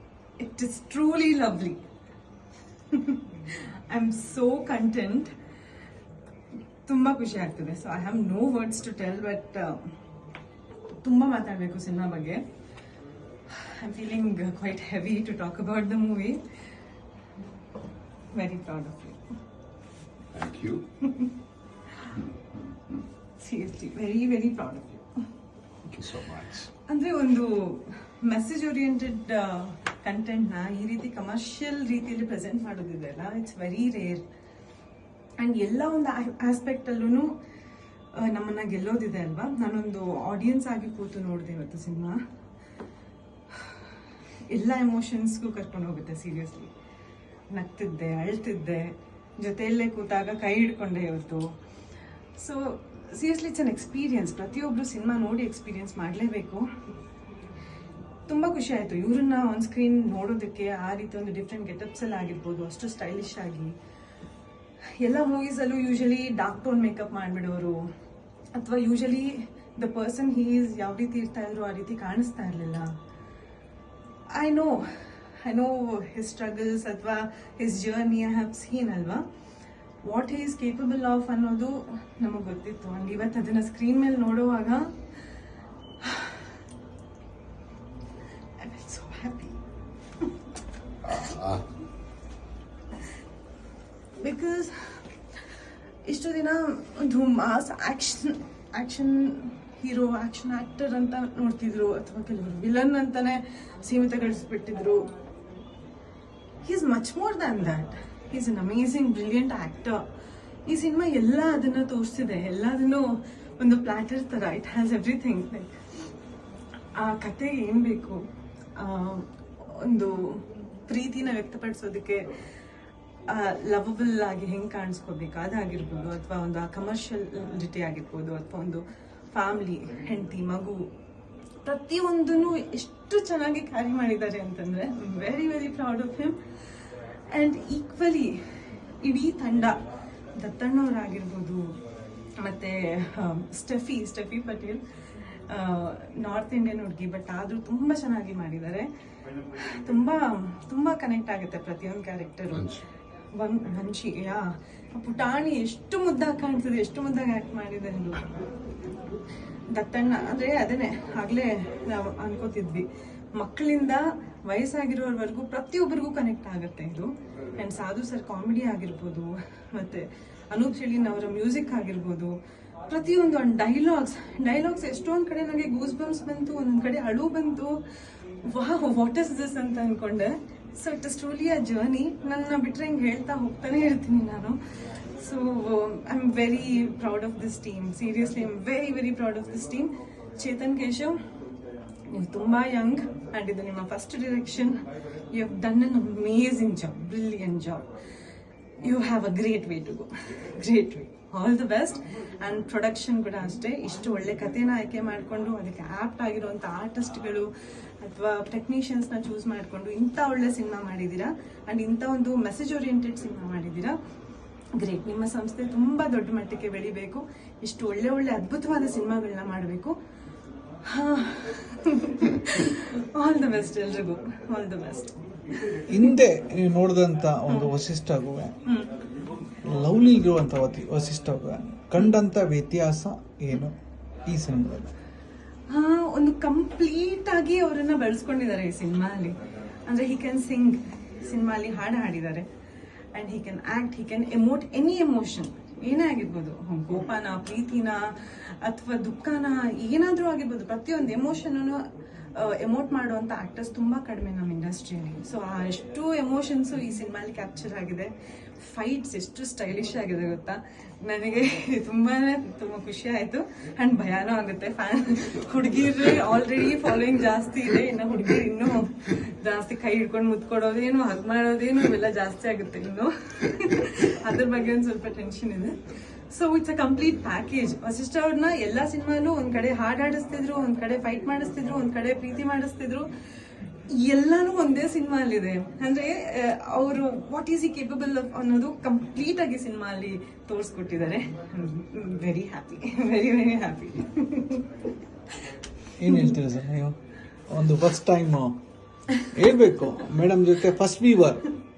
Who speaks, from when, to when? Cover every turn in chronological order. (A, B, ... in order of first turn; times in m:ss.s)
0:00.4-0:01.8 A
0:02.9-0:05.3 A
0:06.9-0:09.8 A
0:11.0-0:12.4 A
0:13.5-0:16.4 A
0:18.3-0:19.2 A
0:20.3-0:20.8 B
0:23.4-0:25.1 A
0:25.9-0:26.7 B
0:26.9-0:34.2 A
0:35.4-0:37.3 A
0:38.1-0:42.2 A
0:44.5-0:46.7 A
0:47.5-0:51.5 A
0:52.4-0:56.6 A
0:58.3-1:03.8 A
1:05.0-1:07.9 A
1:08.5-1:12.9 A
1:14.3-1:19.2 A
1:20.0-1:24.9 A
1:26.0-1:26.5 A
1:28.6-1:29.6 A
1:31.0-1:31.6 B
1:34.2-1:35.0 A
1:36.1-1:45.1 A
1:46.6-1:50.0 A
1:50.7-1:53.1 A
1:53.6-1:55.8 A
1:57.0-1:58.2 A
1:58.8-2:02.3 A
2:03.3-2:10.9 A
2:11.6-2:16.4 A
2:17.3-2:18.4 A
2:19.0-2:19.8 A
2:20.4-2:21.7 A
2:22.4-2:24.8 A
2:25.4-2:28.9 A
2:29.6-2:32.7 A
2:32.5-2:32.8 B
2:33.3-2:38.4 A
2:39.7-2:52.4 A
2:52.9-2:57.8 A
2:58.4-3:04.6 A
3:05.2-3:11.2 A
3:12.1-3:14.8 A
3:15.3-3:17.9 A
3:18.8-3:27.5 A
3:28.0-3:34.0 A
3:34.8-3:40.0 A
3:40.9-3:45.2 A
3:45.7-3:46.1 A
3:45.9-3:48.6 C
3:47.5-3:47.7 A
3:48.6-3:48.9 A
3:49.6-3:53.8 C
3:54.3-3:54.9 C
3:55.7-4:02.5 A
4:03.1-4:08.1 A
4:08.6-4:11.8 A
4:12.4-4:35.8 A
4:36.3-4:43.1 A
4:43.9-4:54.7 A
4:56.0-4:57.0 C
4:56.1-4:56.4 A
4:57.5-4:58.6 C
4:59.2-5:01.5 C